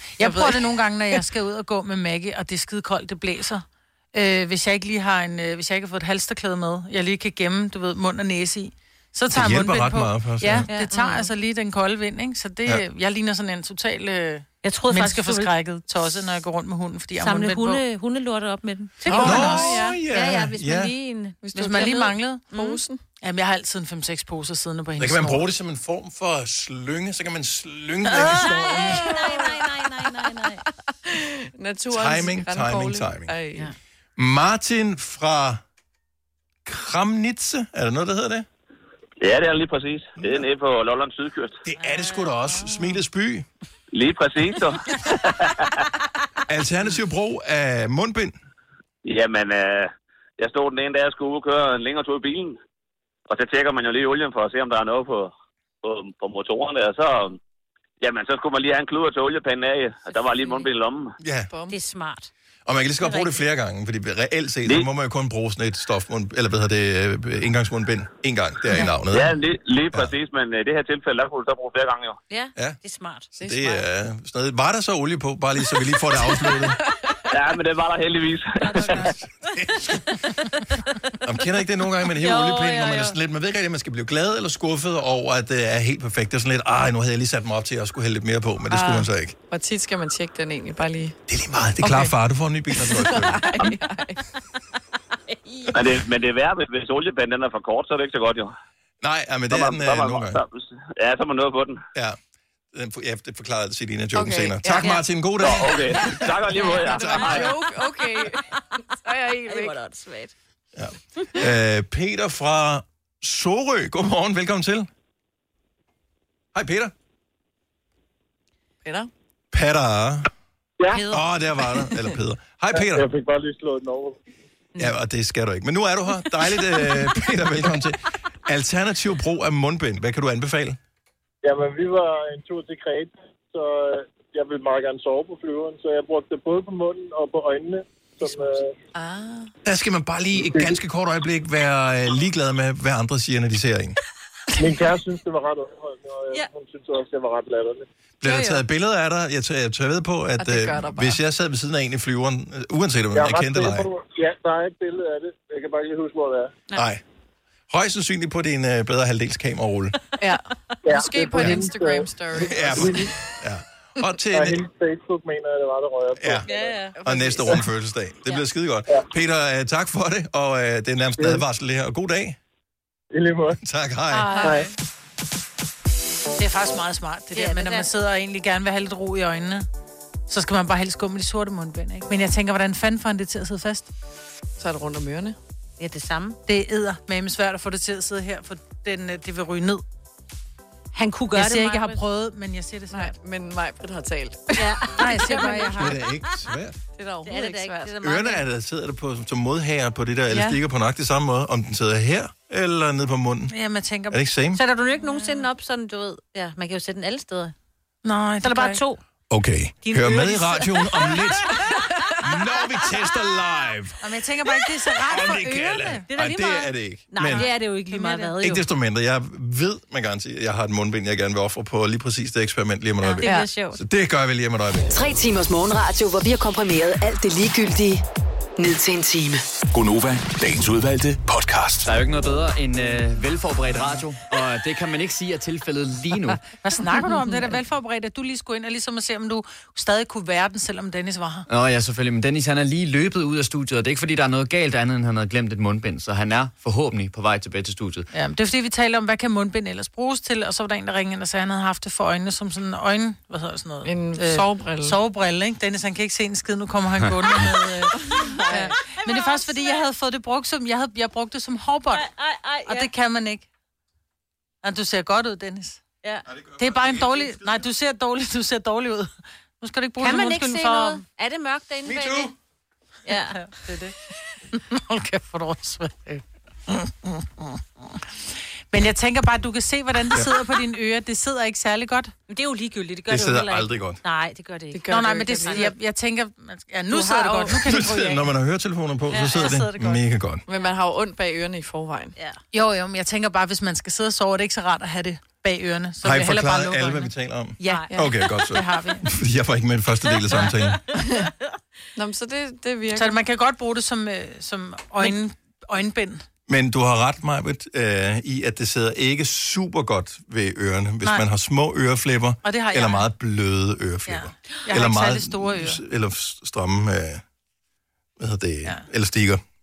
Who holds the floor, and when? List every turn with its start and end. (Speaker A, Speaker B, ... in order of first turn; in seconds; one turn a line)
Speaker A: 0.2-17.8
Speaker B: 0.2-0.7
Speaker C: 9.3-10.7
Speaker D: 10.7-11.3
Speaker D: 14.6-15.5
Speaker D: 17.2-22.8
Speaker B: 19.0-20.0
Speaker A: 19.1-19.8
Speaker C: 19.1-20.9
Speaker B: 21.4-23.0
Speaker A: 21.5-22.5
Speaker A: 23.2-25.4
Speaker C: 25.0-29.1
Speaker D: 28.1-30.6
Speaker B: 28.7-29.6
Speaker B: 31.1-33.7
Speaker C: 31.9-33.3
Speaker C: 34.2-35.6
Speaker C: 36.6-38.5
Speaker E: 39.2-41.6
Speaker C: 40.2-40.5
Speaker C: 41.6-43.5
Speaker A: 41.8-42.6
Speaker E: 43.9-45.5
Speaker C: 46.5-48.3
Speaker E: 49.0-52.6
Speaker E: 53.3-57.4
Speaker E: 58.0-61.1
Speaker C: 61.2-61.5
Speaker B: 61.5-61.8
Speaker D: 61.7-62.3
Speaker C: 62.6-69.4
Speaker D: 63.0-63.3
Speaker E: 69.1-72.2
Speaker D: 72.3-73.3
Speaker B: 73.3-73.8
Speaker C: 73.4-76.8
Speaker E: 77.3-79.0
Speaker A: 78.7-79.1
Speaker C: 78.8-80.0
Speaker C: 81.2-89.3
Speaker D: 82.1-83.2
Speaker B: 88.7-91.2
Speaker C: 91.3-93.7
Speaker B: 91.8-92.1
Speaker B: 92.7-94.2
Speaker E: 95.7-98.5
Speaker C: 99.0-100.4
Speaker E: 99.5-101.8
Speaker C: 102.7-107.5
Speaker B: 104.1-105.0
Speaker E: 105.4-107.5
Speaker B: 106.5-108.5
Speaker D: 106.5-106.8
Speaker B: 109.0-109.8
Speaker D: 109.5-110.3
Speaker C: 110.8-114.9
Speaker C: 116.5-116.9
Speaker B: 118.8-119.1
Speaker C: 119.5-120.3
Speaker C: 121.0-123.1
Speaker F: 122.7-124.2
Speaker C: 124.8-130.8
Speaker F: 131.4-138.7
Speaker B: 138.9-139.5
Speaker C: 139.6-144.0
Speaker F: 140.3-140.8
Speaker F: 144.6-147.8
Speaker C: 148.2-153.9
Speaker B: 150.4-151.2
Speaker F: 153.1-156.6
Speaker C: 156.7-157.0
Speaker C: 157.7-160.0
Speaker B: 160.2-163.0
Speaker F: 160.8-163.1
Speaker C: 161.3-161.7
Speaker C: 162.3-164.6
Speaker F: 164.3-166.7
Speaker C: 166.2-166.5
Speaker D: 166.4-166.9
Speaker B: 166.9-167.6
Speaker C: 167.0-172.4
Speaker F: 171.2-171.4
Speaker F: 173.1-173.6
Speaker C: 173.6-174.6
Speaker A: 174.1-174.6
Speaker F: 174.4-174.7
Speaker A: 176.4-179.7
Speaker D: 177.3-177.8
Speaker A: 180.3-183.9
Speaker B: 184.6-185.4
Speaker D: 185.8-186.4
Speaker A: 186.4-189.8
Speaker D: 190.9-192.0
Speaker A: 191.3-193.1
Speaker B: 192.9-194.8
Speaker D: 194.6-196.1
Speaker A: 194.9-196.0
Speaker C: 195.8-196.8
Speaker B: 196.9-198.0
Speaker D: 197.2-198.4
Speaker C: 198.0-203.5
Speaker B: 200.3-200.6
Speaker A: 203.5-204.2
Speaker C: 204.1-204.6
Speaker D: 204.6-207.5
Speaker A: 205.1-205.4
Speaker A: 208.0-208.8
Speaker D: 208.4-209.0
Speaker C: 209.3-214.0
Speaker D: 209.8-211.8
Speaker A: 214.0-216.0
Speaker C: 215.0-217.5
Speaker D: 216.1-218.6
Speaker A: 217.3-218.3
Speaker C: 218.4-224.9
Speaker D: 223.0-223.8
Speaker B: 223.2-223.5
Speaker G: 224.9-228.0
Speaker G: 228.6-229.4
Speaker H: 229.7-231.9
Speaker I: 231.8-236.4
Speaker A: 236.6-241.4
Speaker I: 241.5-248.1
Speaker A: 248.1-262.1
Speaker B: 253.8-255.0
Speaker B: 258.1-258.7
Speaker D: 259.1-259.8
Speaker D: 261.9-262.9
Speaker A: 262.6-263.5
Speaker A: 264.6-265.8
Speaker C: 266.3-267.6
Speaker A: 266.6-269.1
Speaker A: 269.6-271.0
Speaker D: 270.0-272.3
Speaker C: 271.9-272.3
Speaker D: 273.1-273.4
Speaker A: 273.3-273.9
Speaker A: 274.5-277.6
Speaker A: 278.7-282.1
Speaker D: 282.3-285.7
Speaker C: 283.1-284.0
Speaker B: 284.7-285.7
Speaker A: 284.9-288.3
Speaker C: 287.5-290.4
Speaker D: 289.1-289.5
Speaker A: 289.3-290.0
Speaker B: 290.5-292.2
Speaker A: 292.5-299.1
Speaker C: 296.0-300.8
Speaker B: 300.9-301.3
Speaker B: 301.9-303.2
Speaker A: 302.9-306.2
Speaker C: 306.5-317.2
Speaker A: 312.4-313.1
Speaker A: 314.1-315.8
Speaker C: 318.2-319.4